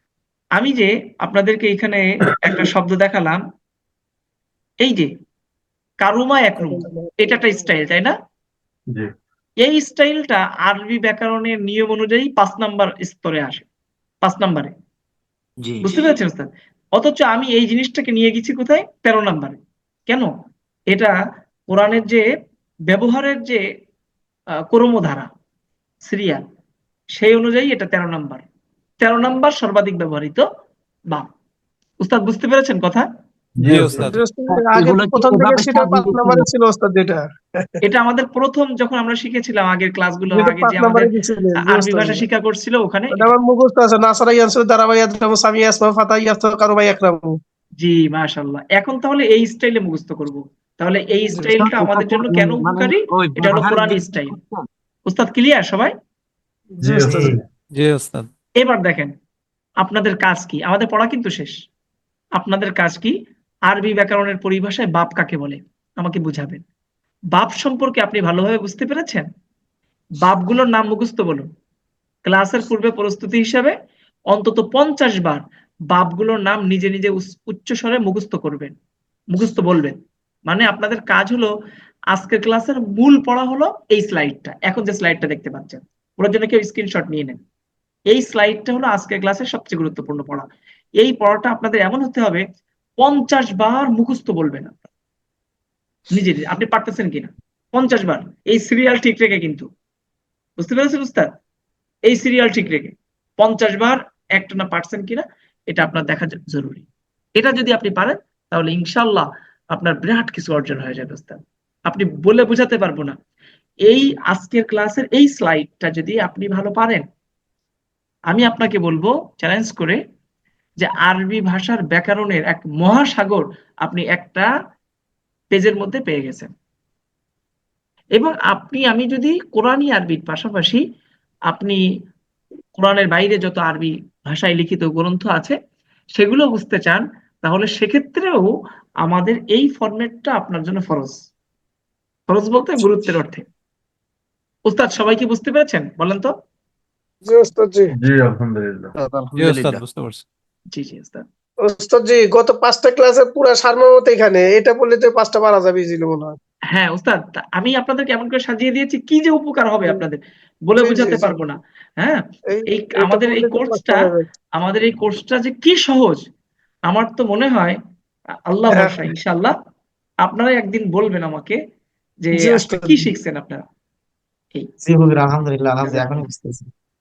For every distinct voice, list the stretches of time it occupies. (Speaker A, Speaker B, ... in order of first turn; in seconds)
Speaker A: 0.6-3.4, 4.8-5.1, 6.0-8.1, 9.6-13.7, 14.2-14.7, 15.8-20.3, 21.7-22.3, 22.9-23.6, 24.7-25.3, 26.1-26.4, 27.1-28.4, 29.0-30.4, 32.0-33.1, 37.8-43.3, 47.8-54.4, 55.1-55.9, 58.6-59.1, 59.8-61.5, 62.4-63.1, 63.7-66.6, 67.3-69.3, 70.2-71.5, 72.3-73.7, 74.3-78.8, 79.3-80.0, 80.5-81.5, 82.1-87.4, 88.1-90.5, 91.0-92.4, 93.0-94.9, 96.1-99.7, 100.6-101.3, 102.1-106.9, 107.4-113.2, 113.9-117.0, 118.3-120.0, 120.8-124.5, 125.5-126.5, 128.2-130.8, 131.5-131.8, 132.7-135.6, 136.2-138.5, 139.1-141.2, 142.3-143.4, 144.7-146.3, 150.7-151.2, 156.7-166.2, 166.9-167.8, 168.5-169.5, 170.2-171.6, 172.2-173.6, 175.8-176.3
Speaker B: 6.7-7.3, 34.0-37.8, 40.3-42.2, 43.1-47.4, 56.8-57.4, 147.2-147.9, 151.6-156.4, 160.8-161.4, 162.5-164.3, 168.7-169.1, 172.3-173.1
Speaker C: 15.6-16.1, 34.9-35.5, 51.4-54.7, 57.1-57.4, 149.0-149.8, 174.8-176.7
Speaker D: 33.6-34.1, 56.8-57.4, 147.9-148.9
Speaker E: 33.6-34.2, 57.8-58.3, 149.4-150.2